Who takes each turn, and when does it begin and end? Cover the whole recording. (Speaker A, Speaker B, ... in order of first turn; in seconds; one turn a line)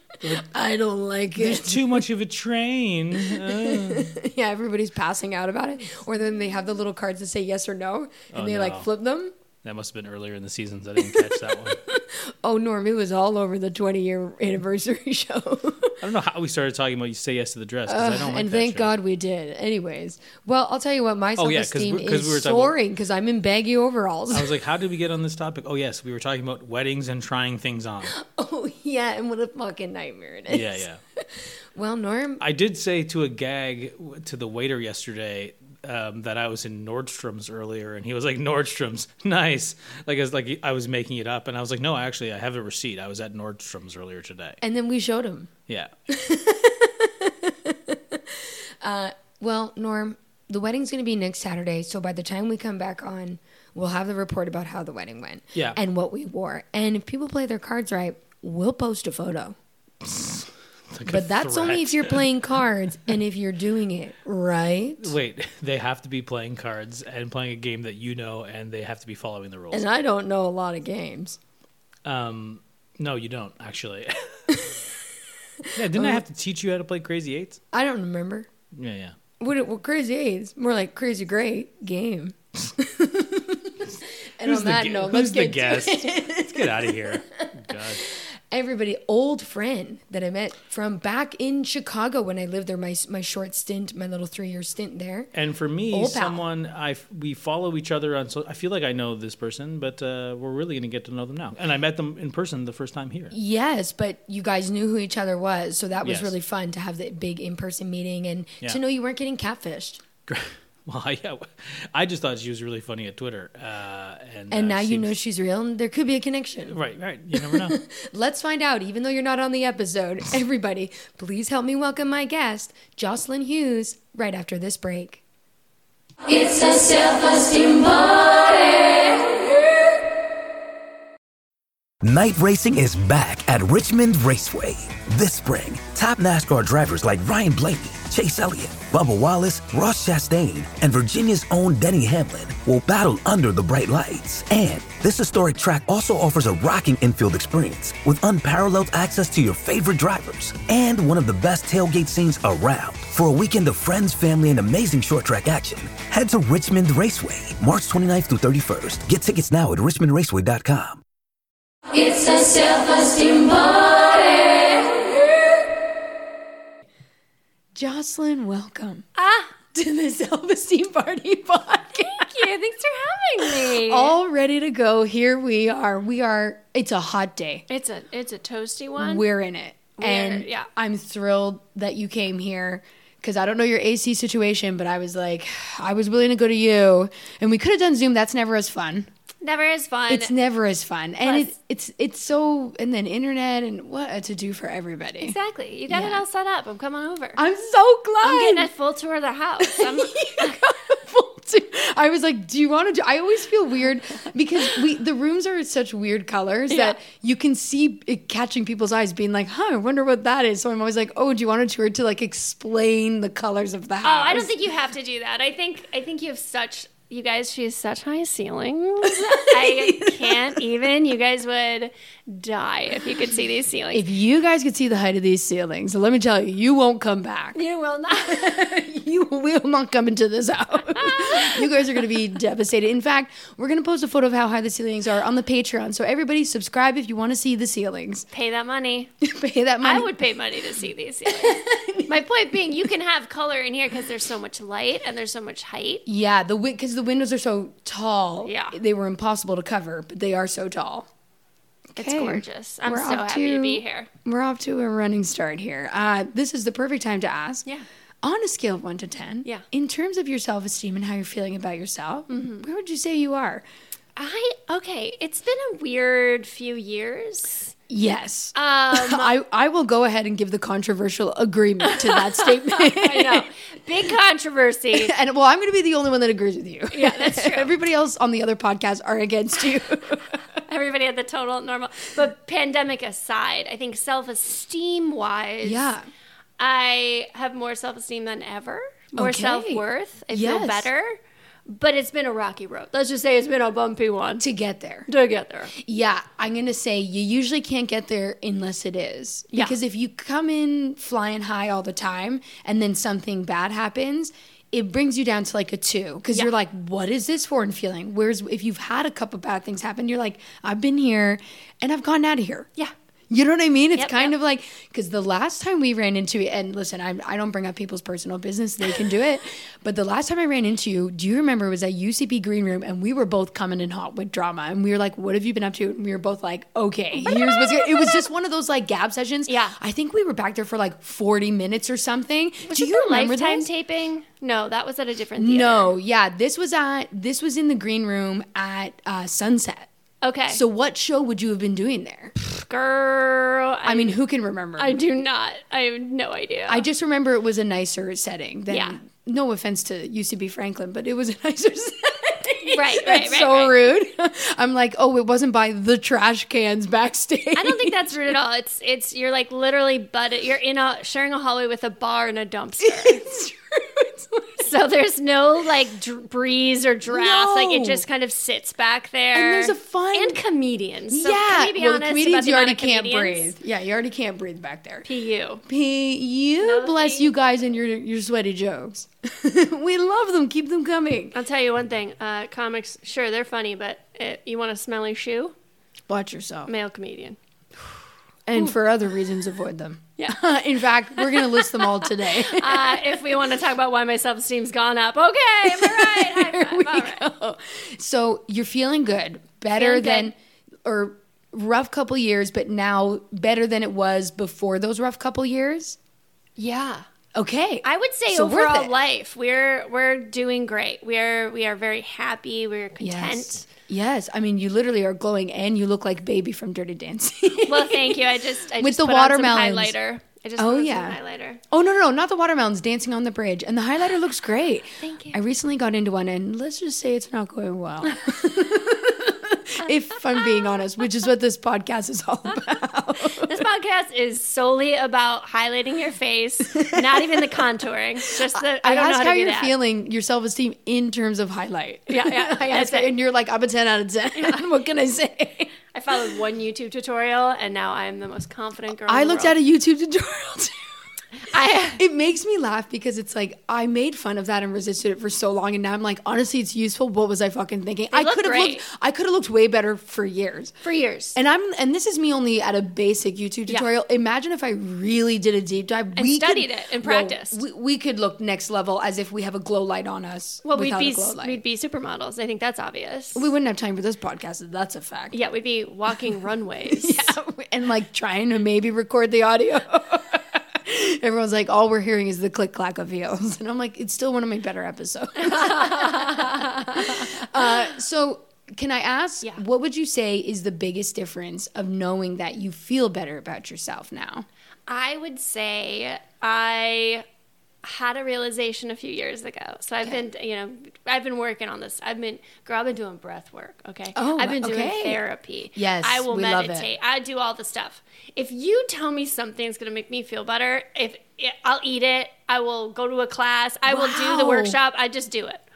Speaker A: 0.4-2.0
Speaker B: 1.4-4.1
Speaker A: 3.1-9.3
Speaker B: 8.3-8.9
Speaker B: 9.6-11.8
Speaker A: 11.0-16.0
Speaker B: 16.0-18.9
Speaker A: 17.9-24.5
Speaker B: 21.4-22.7
Speaker B: 24.3-28.1
Speaker A: 28.1-32.4
Speaker B: 30.5-31.0
Speaker B: 32.4-44.6
Speaker A: 44.6-45.5
Speaker A: 46.1-59.5
Speaker B: 60.0-62.3
Speaker A: 61.0-65.2
Speaker B: 65.0-69.8
Speaker A: 69.7-71.4
Speaker B: 72.0-74.6
Speaker A: 75.6-76.2
Speaker B: 75.7-77.6
Speaker A: 77.7-78.5
Speaker B: 78.8-79.1
Speaker A: 79.4-95.3
Speaker B: 84.4-88.1
Speaker B: 95.3-103.3
Speaker A: 95.9-96.4
Speaker A: 103.3-110.0
Speaker B: 106.0-106.3
Speaker B: 110.3-115.1
Speaker A: 114.5-116.8
Speaker B: 116.7-117.8
Speaker A: 117.3-125.2
Speaker C: 126.3-129.4
Speaker D: 132.0-161.0
Speaker C: 161.9-165.4
Speaker A: 167.7-169.1
Speaker E: 169.2-169.5
Speaker A: 169.7-172.5
Speaker E: 172.0-174.1
Speaker A: 173.4-177.6
Speaker E: 177.7-179.2
Speaker A: 179.0-189.1
Speaker E: 180.0-180.7
Speaker E: 189.4-190.3
Speaker A: 190.1-195.3
Speaker E: 191.2-191.5
Speaker E: 195.2-197.4
Speaker A: 195.9-196.2
Speaker A: 197.3-198.7
Speaker E: 198.2-200.7
Speaker A: 199.6-214.6
Speaker E: 206.7-207.0
Speaker E: 214.0-224.0
Speaker A: 219.0-220.6
Speaker A: 223.9-227.6
Speaker E: 227.5-228.6
Speaker A: 228.2-238.3
Speaker E: 230.9-231.7
Speaker E: 238.3-239.1
Speaker A: 239.2-240.1
Speaker E: 239.8-246.0
Speaker A: 241.2-242.1
Speaker A: 246.0-251.1
Speaker E: 248.4-248.8
Speaker A: 251.9-257.7
Speaker E: 252.0-254.1
Speaker A: 258.2-263.6
Speaker E: 262.3-262.6
Speaker E: 264.1-267.7
Speaker A: 267.9-273.5
Speaker E: 268.5-269.3
Speaker E: 271.9-275.1
Speaker A: 274.9-280.4
Speaker E: 276.9-277.7
Speaker E: 280.6-285.9
Speaker A: 285.6-286.1
Speaker E: 286.6-294.5
Speaker A: 289.1-290.9
Speaker A: 294.4-295.1
Speaker E: 295.1-295.7
Speaker A: 295.7-312.7
Speaker A: 313.3-333.7
Speaker E: 313.9-314.3
Speaker E: 327.1-328.2
Speaker E: 329.5-329.8
Speaker E: 332.6-335.9
Speaker A: 335.4-339.9
Speaker E: 340.2-340.6
Speaker A: 340.5-342.3
Speaker E: 342.4-344.2
Speaker A: 343.8-345.0
Speaker E: 344.8-346.8
Speaker A: 346.7-358.0
Speaker E: 348.7-349.0
Speaker E: 352.6-353.7
Speaker E: 357.5-363.2
Speaker A: 362.8-364.6
Speaker E: 364.6-373.5
Speaker A: 367.1-368.0
Speaker A: 369.3-370.4
Speaker A: 371.1-375.1
Speaker E: 375.0-375.6
Speaker A: 375.6-381.3
Speaker E: 376.6-377.3
Speaker E: 381.3-385.5
Speaker A: 386.1-386.7
Speaker E: 386.6-387.4
Speaker A: 388.5-393.0
Speaker E: 391.1-397.2
Speaker A: 395.6-406.0
Speaker E: 399.7-400.3
Speaker E: 406.6-407.1
Speaker A: 407.3-408.9
Speaker E: 407.8-413.7
Speaker A: 413.0-419.9
Speaker E: 417.7-421.6
Speaker A: 420.6-421.2
Speaker A: 421.7-433.6
Speaker E: 425.0-425.4
Speaker E: 430.4-430.7
Speaker E: 433.2-439.7
Speaker A: 436.8-437.4
Speaker A: 438.3-445.7
Speaker E: 442.1-443.1
Speaker E: 445.9-449.6
Speaker A: 449.1-450.9
Speaker E: 451.4-452.0
Speaker A: 451.9-460.8
Speaker E: 458.1-458.8
Speaker E: 460.8-461.4
Speaker A: 461.3-471.6
Speaker E: 466.1-467.6
Speaker E: 470.6-473.5
Speaker A: 473.3-475.4
Speaker E: 475.3-477.4
Speaker A: 476.9-494.4
Speaker E: 485.4-487.6
Speaker E: 494.9-497.2
Speaker E: 497.8-515.6
Speaker A: 504.1-505.2
Speaker A: 505.7-506.9
Speaker A: 513.9-514.8